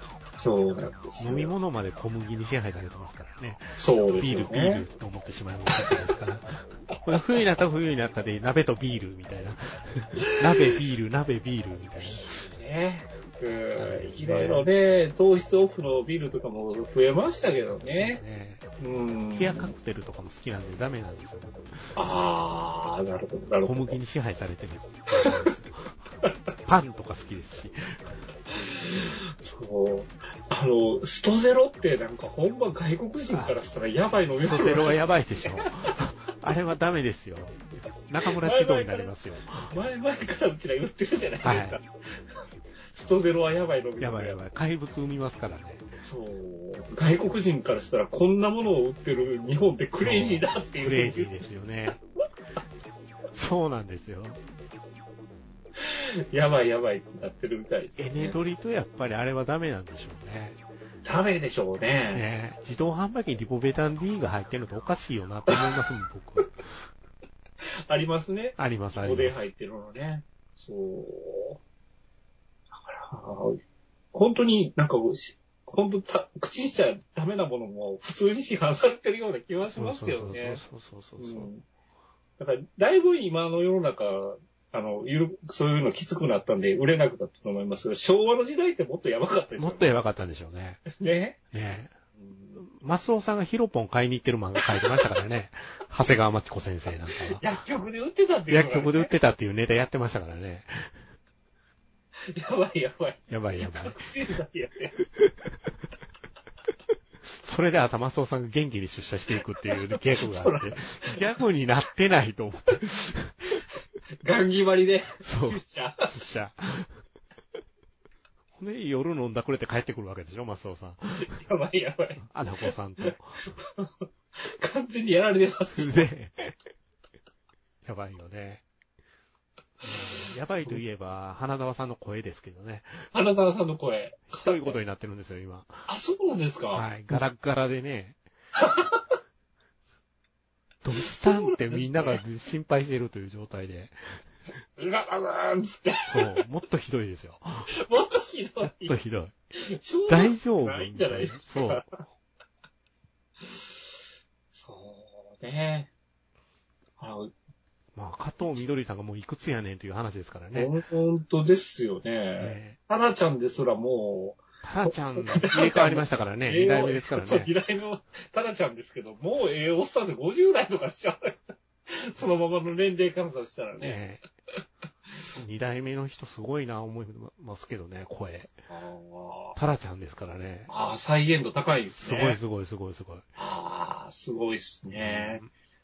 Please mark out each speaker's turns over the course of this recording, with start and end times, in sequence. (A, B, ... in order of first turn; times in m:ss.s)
0:00.4-0:01.5 A
0:01.2-0:12.4 B
0:03.8-0:04.8 A
0:12.0-0:18.2 A
0:13.8-0:14.7 B
0:17.8-0:18.6 B
0:18.8-0:19.7 A
0:19.3-0:21.6 B
0:22.0-0:24.0 A
0:23.6-0:25.9 B
0:26.6-0:28.2 B
0:28.5-0:35.6 A
0:33.3-0:33.6 B
0:34.4-0:37.6 B
0:38.1-0:39.7 B
0:38.2-0:39.1 A
0:39.7-0:42.0 A
0:41.4-0:41.8 B
0:42.9-0:44.4 A
0:44.0-0:45.9 B
0:46.0-0:51.5 A
0:50.0-0:52.0 B
0:53.3-0:54.4 B
0:55.8-0:58.4 A
0:58.0-1:00.6 B
1:01.0-1:02.2 A
1:02.1-1:06.5 B
1:07.9-1:11.6 A
1:08.6-1:09.4 B
1:12.7-1:13.6 A
1:14.1-1:20.6 A
1:19.7-1:21.5 B
1:21.2-1:21.6 A
1:22.4-1:29.9 A
1:29.6-1:30.8 B
1:30.9-1:31.4 A
1:31.5-1:31.9 B
1:32.2-1:32.6 A
1:32.6-1:37.4 B
1:37.1-1:39.1 A
1:38.5-1:40.9 B
1:42.3-1:45.1 A
1:43.3-1:44.1 B
1:47.3-1:53.3 B
1:49.9-1:51.2 A
1:54.2-1:56.1 A
1:55.2-1:57.0 B
1:58.5-2:01.4 B
2:01.2-2:02.2 A
2:02.2-2:03.4 B
2:03.0-2:06.1 A
2:05.7-2:06.5 B
2:07.8-2:08.6 B
2:09.8-2:13.0 B
2:09.9-2:10.8 A
2:13.1-2:14.7 A
2:14.3-2:15.8 B
2:15.9-2:16.9 A
2:16.7-2:18.2 B
2:18.6-2:19.1 A
2:20.8-2:24.0 B
2:21.0-2:22.2 A
2:24.8-2:26.4 A
2:26.1-2:27.7 B
2:27.8-2:29.0 A
2:28.6-2:29.3 B
2:29.7-2:31.9 A
2:30.1-2:31.9 B
2:33.4-2:34.0 A
2:34.5-2:35.9 A
2:37.0-2:37.3 A
2:37.9-2:40.7 B
2:40.5-2:54.0 A
2:42.4-2:42.8 B
2:44.6-2:47.5 B
2:53.8-2:54.2 B
2:55.4-2:58.5 B
2:58.7-2:59.6 A
2:59.6-3:00.7 B
3:00.7-3:02.4 A
3:01.9-3:03.2 B
3:03.4-3:05.4 A
3:04.9-3:05.5 B